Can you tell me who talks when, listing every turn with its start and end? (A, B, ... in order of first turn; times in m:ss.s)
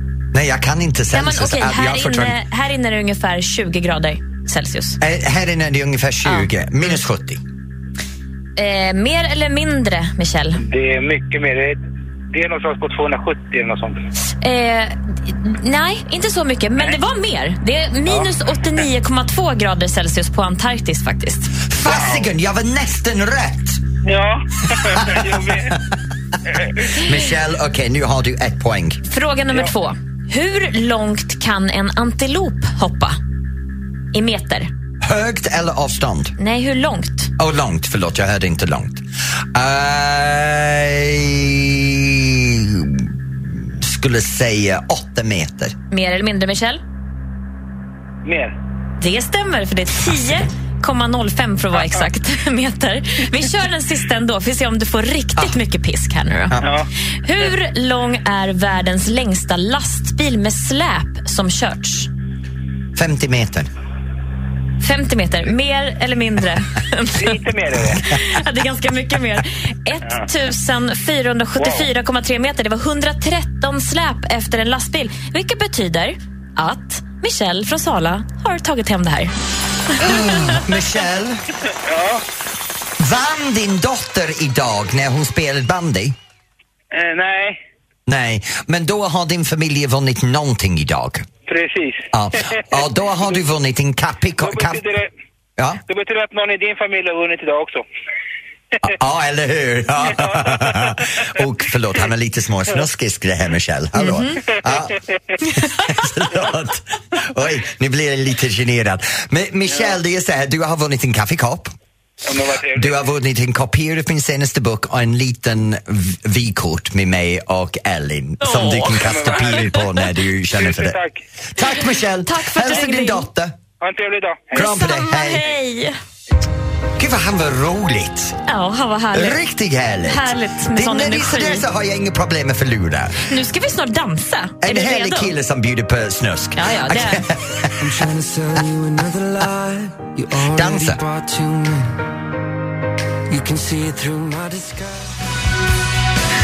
0:00.3-0:02.4 A
0:01.1-0:05.0 B
0:05.0-0:07.4 A
0:08.6-0:10.6 B
0:10.6-0:11.8 C
0:12.3-0:14.0 C
0:14.3-0:21.5 B
0:21.7-0:23.8 A
0:21.9-0:22.3 C
0:24.0-0:25.8 C
0:24.7-0:25.8 A
0:26.9-0:29.0 A
0:29.1-0:33.2 B
0:34.1-0:34.7 B
0:35.0-0:36.3 A
0:36.4-0:37.3 B
0:37.4-0:45.8 A
0:45.9-0:46.8 B
0:48.2-0:48.5 C
0:49.0-0:56.6 B
0:56.6-0:56.9 C
0:57.2-1:02.1 B
1:03.0-1:03.7 A
1:04.8-1:07.4 B
1:07.2-1:08.0 C
1:07.9-1:19.3 B
1:11.6-1:11.9 C
1:19.9-1:20.6 B
1:20.0-1:21.4 A
1:21.8-1:22.2 C
1:23.0-1:26.2 A
1:26.9-1:27.6 C
1:28.1-1:31.3 A
1:31.5-1:32.1 C
1:32.1-1:34.8 A
1:34.4-1:35.1 C
1:35.6-1:35.8 A
1:35.9-1:37.8 C
1:38.8-1:45.0 A
1:44.0-1:44.4 B
1:45.4-1:45.9 B
1:45.5-1:51.7 A
1:52.2-1:53.0 C
1:52.7-2:01.0 A
1:58.4-2:00.0 B
1:59.0-1:59.8 C
2:00.6-2:01.2 C
2:01.6-2:03.6 A
2:02.2-2:03.3 B
2:03.8-2:04.7 C
2:04.6-2:05.5 A
2:04.6-2:06.0 B
2:07.0-2:08.4 A
2:08.5-2:09.4 B
2:09.1-2:13.3 A
2:10.0-2:11.7 B
2:13.3-2:15.4 B
2:14.6-2:17.9 A
2:16.6-2:17.3 B
2:17.8-2:22.0 D
2:20.4-2:21.0 A
2:23.3-2:25.1 D